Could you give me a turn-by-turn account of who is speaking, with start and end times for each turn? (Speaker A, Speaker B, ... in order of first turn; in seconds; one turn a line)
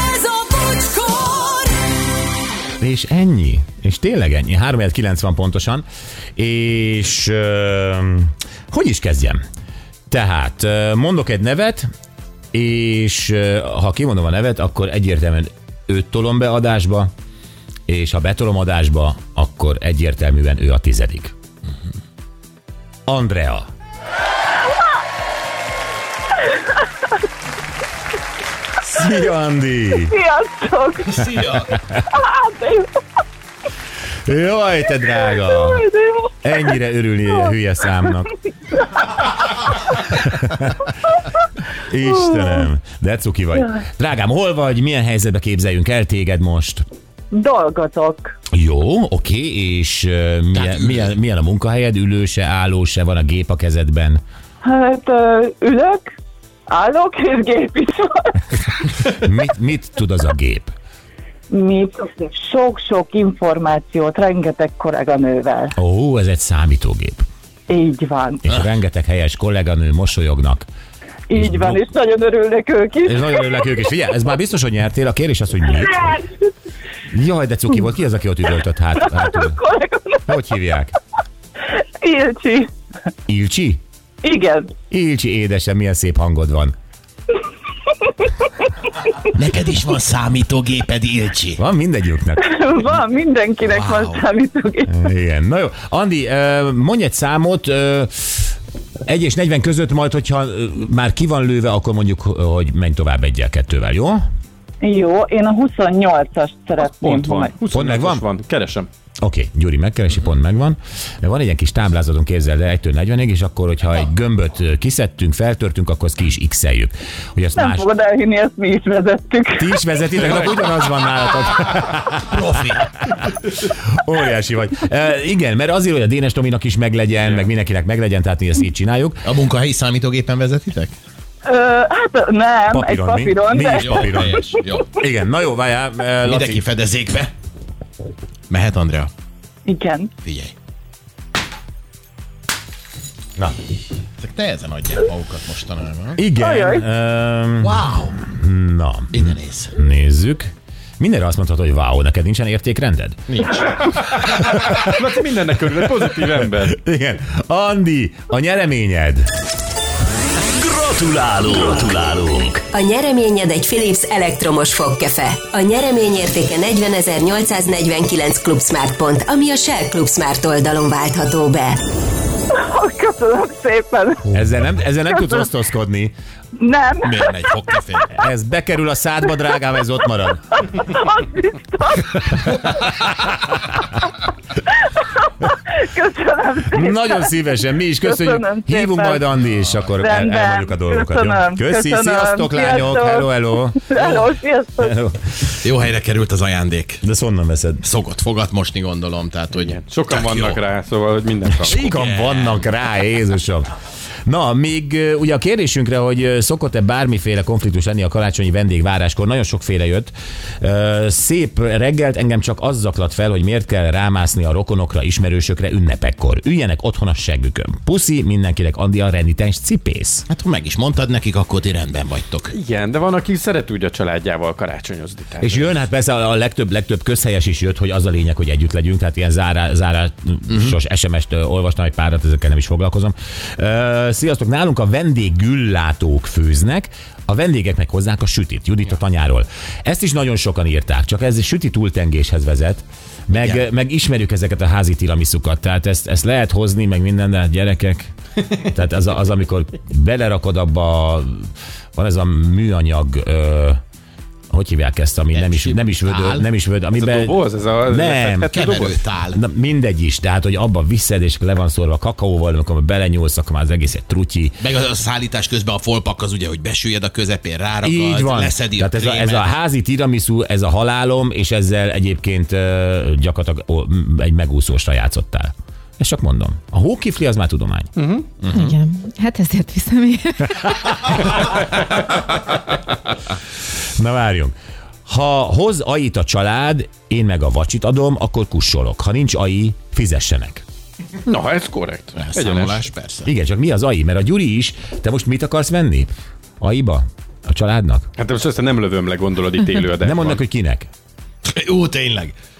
Speaker A: 2.8-5.8
Speaker A: 6.4-9.4
Speaker A: 10.1-11.9
Speaker A: 12.5-17.1
Speaker A: 17.9-21.3
Speaker A: 23.1-23.6
Speaker A: 28.8-30.1
Speaker B: 30.0-32.9
Speaker A: 34.3-35.8
Speaker B: 35.3-36.3
Speaker A: 36.4-38.3
Speaker A: 40.0-40.9
Speaker A: 41.9-46.8
Speaker B: 47.3-48.3
Speaker A: 48.5-54.2
Speaker C: 50.5-51.1
Speaker B: 54.6-56.0
Speaker B: 56.7-58.4
Speaker A: 59.0-60.7
Speaker B: 61.5-65.8
Speaker A: 65.8-67.2
Speaker B: 67.7-68.4
Speaker A: 68.4-70.7
Speaker B: 71.3-73.8
Speaker A: 71.3-71.8
Speaker A: 73.0-76.2
Speaker A: 77.1-79.6
Speaker B: 79.1-80.2
Speaker A: 80.3-80.9
Speaker B: 82.0-82.7
Speaker A: 83.3-83.8
Speaker B: 84.2-84.7
Speaker A: 84.9-86.7
Speaker C: 89.3-91.6
Speaker A: 91.6-92.5
Speaker B: 92.4-95.0
Speaker C: 93.6-94.2
Speaker A: 94.9-98.5
Speaker A: 99.1-104.2
Speaker B: 104.8-107.5
Speaker D: 106.9-108.9
Speaker A: 107.7-108.2
Speaker A: 109.2-117.9
Speaker B: 117.5-119.9
Speaker A: 119.6-129.3
Speaker D: 120.2-120.5
Speaker C: 122.3-122.8
Speaker C: 129.2-130.9
Speaker B: 131.4-134.6
Speaker A: 132.7-136.6
Speaker C: 133.8-134.9
Speaker C: 136.2-137.3
Speaker C: 138.5-139.1
Speaker B: 139.7-140.1
Speaker C: 140.2-140.5
Speaker C: 144.2-146.2
Speaker A: 146.2-153.2
Speaker B: 146.4-146.9
Speaker C: 147.6-148.2
Speaker C: 149.1-149.7
Speaker C: 153.3-153.6
Speaker D: 154.0-156.8
Speaker A: 154.4-154.8
Speaker A: 156.7-159.2
Speaker E: 160.6-162.6
Speaker F: 162.6-171.8
Speaker B: 172.5-174.4
Speaker A: 174.3-176.1
Speaker B: 175.1-175.5
Speaker B: 176.6-177.8
Speaker C: 177.0-178.1
Speaker A: 178.1-180.6
Speaker B: 180.7-182.9
Speaker A: 182.7-183.3
Speaker B: 185.0-187.3
Speaker A: 186.7-194.2
Speaker B: 188.0-189.2
Speaker B: 190.0-194.9
Speaker A: 194.8-195.2
Speaker C: 195.6-197.0
Speaker A: 197.0-197.8
Speaker C: 197.8-200.6
Speaker D: 199.6-201.8
Speaker A: 201.7-203.7
Speaker C: 201.7-202.7
Speaker A: 204.2-220.2
Speaker C: 220.3-222.5
Speaker D: 222.5-225.8
Speaker A: 225.4-253.8
Speaker C: 243.3-243.6
Speaker A: 254.5-258.6
Speaker C: 255.3-256.5
Speaker D: 256.9-259.0
Speaker C: 258.5-259.4
Speaker A: 259.3-264.6
Speaker C: 264.6-269.5
Speaker A: 267.8-277.9
Speaker D: 278.0-278.3
Speaker C: 278.4-278.7
Speaker G: 278.5-281.0
Speaker A: 284.0-284.5
Speaker A: 285.1-290.6
Speaker D: 291.2-292.9
Speaker C: 292.1-293.3
Speaker A: 293.2-298.1
Speaker D: 298.2-300.4
Speaker A: 300.0-300.9
Speaker C: 301.4-302.3